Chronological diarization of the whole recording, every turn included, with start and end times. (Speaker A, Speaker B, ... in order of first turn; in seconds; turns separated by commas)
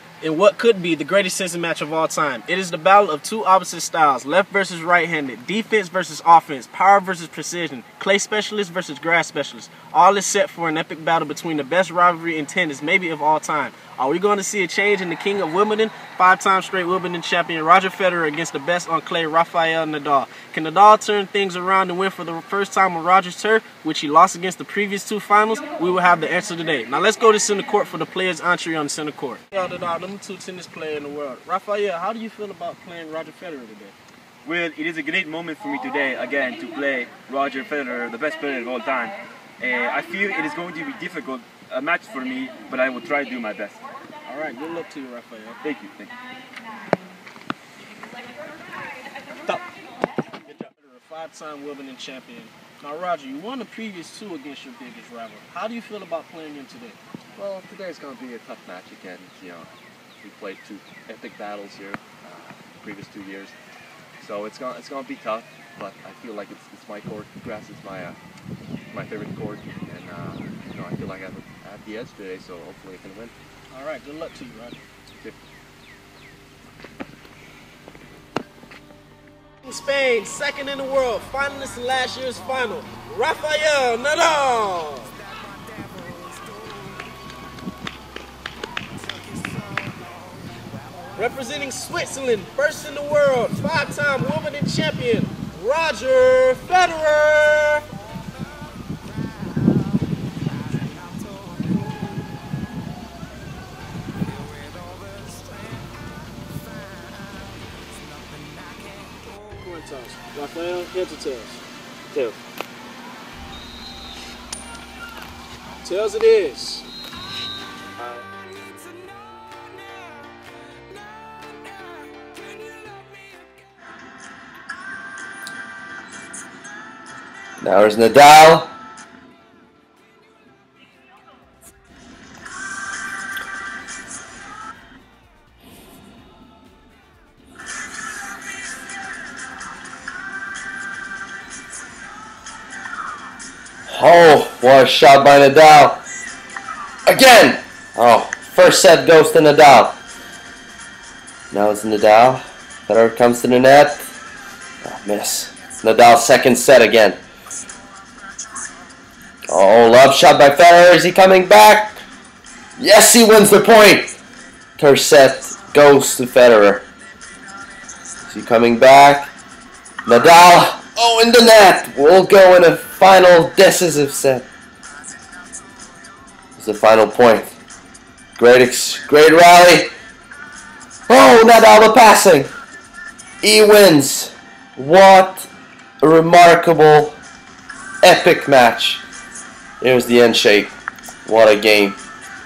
Speaker A: 0.2-33.9, Speaker B: 34.5-43.9, Speaker A: 44.3-45.6, Speaker B: 45.6-46.1, Speaker A: 50.3-57.0, Speaker C: 57.4-59.7, Speaker C: 60.2-63.5, Speaker C: 64.2-68.2, Speaker C: 68.9-73.3, Speaker A: 73.7-74.8, Speaker A: 79.6-85.2, Speaker A: 85.9-86.4, Speaker A: 89.4-90.0, Speaker A: 91.2-97.8, Speaker A: 101.3-101.6, Speaker A: 104.6-105.8, Speaker A: 108.4-111.6, Speaker A: 115.8-116.9, Speaker A: 118.3-120.2, Speaker A: 121.9-123.5, Speaker D: 127.6-128.7, Speaker D: 143.9-146.0, Speaker D: 147.1-150.0, Speaker D: 151.5-154.1, Speaker D: 154.8-157.2, Speaker D: 159.5-162.0, Speaker D: 162.8-164.1, Speaker D: 164.8-166.8, Speaker D: 168.2-169.3, Speaker D: 170.1-174.5, Speaker D: 176.6-177.6, Speaker D: 178.4-179.9, Speaker D: 181.1-182.5, Speaker D: 183.4-185.5, Speaker D: 186.0-187.2, Speaker D: 188.0-189.0, Speaker D: 189.8-190.7, Speaker D: 191.2-192.0